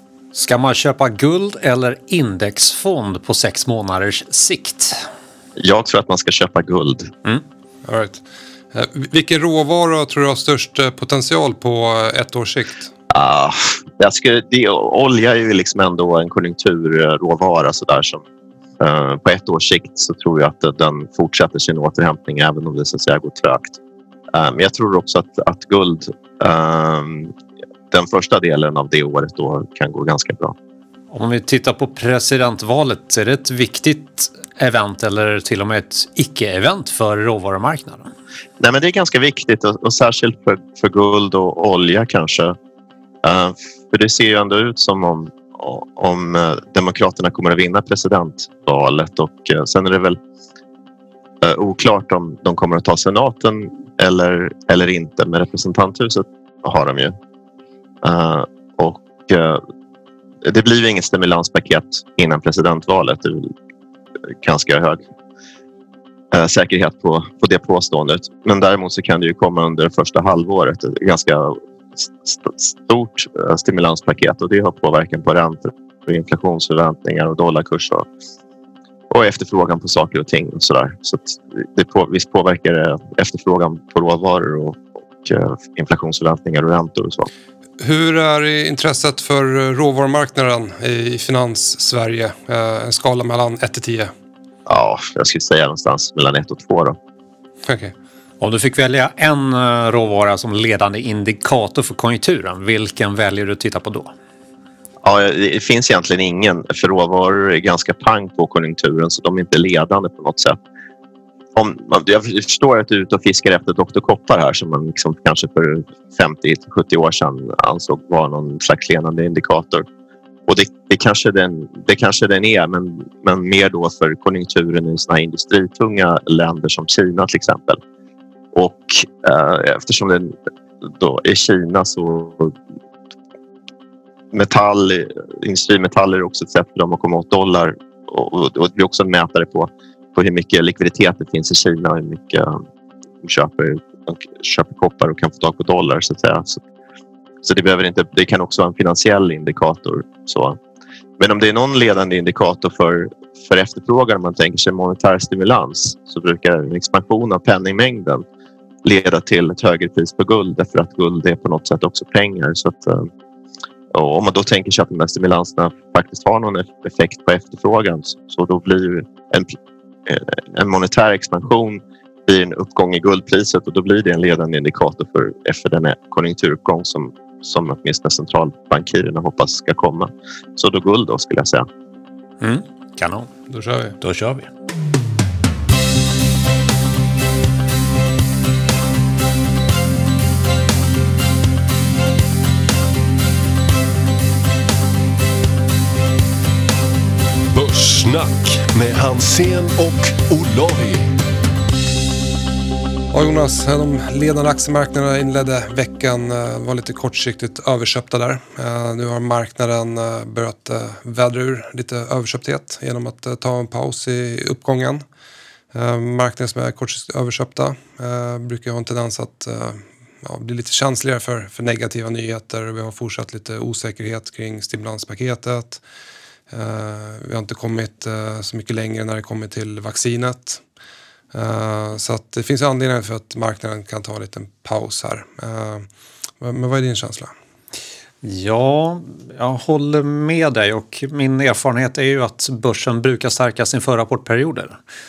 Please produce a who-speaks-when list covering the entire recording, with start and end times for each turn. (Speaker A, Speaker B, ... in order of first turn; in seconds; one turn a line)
Speaker A: 0.3-5.0
Speaker B: 5.6-7.1
Speaker C: 7.8-12.9
Speaker B: 13.1-18.2
Speaker B: 18.8-23.8
Speaker B: 24.3-27.3
Speaker B: 27.9-30.6
Speaker A: 31.1-38.1
Speaker B: 38.6-42.6
Speaker B: 43.2-50.2
Speaker B: 51.4-57.1
Speaker B: 58.0-59.6
Speaker B: 60.4-63.5
Speaker B: 64.4-65.0
Speaker B: 66.3-78.1
Speaker B: 79.1-87.3
Speaker C: 87.8-94.1
Speaker B: 94.7-97.0
Speaker C: 97.7-97.9
Speaker A: 98.4-104.1
Speaker B: 105.0-110.6
Speaker B: 111.5-119.9
Speaker B: 120.5-127.8
Speaker B: 128.5-132.6
Speaker B: 134.3-142.6
Speaker B: 143.2-146.6
Speaker B: 147.4-150.6
Speaker B: 151.2-158.2
Speaker B: 158.8-163.1
Speaker B: 163.9-181.7
Speaker A: 182.4-183.3
Speaker C: 183.5-183.9
Speaker A: 184.0-184.5
Speaker D: 197.5-201.2
Speaker C: 203.1-215.0
Speaker C: 215.7-225.8
Speaker C: 226.5-230.6
Speaker C: 231.3-235.9
Speaker C: 236.4-237.3
Speaker A: 238.2-244.8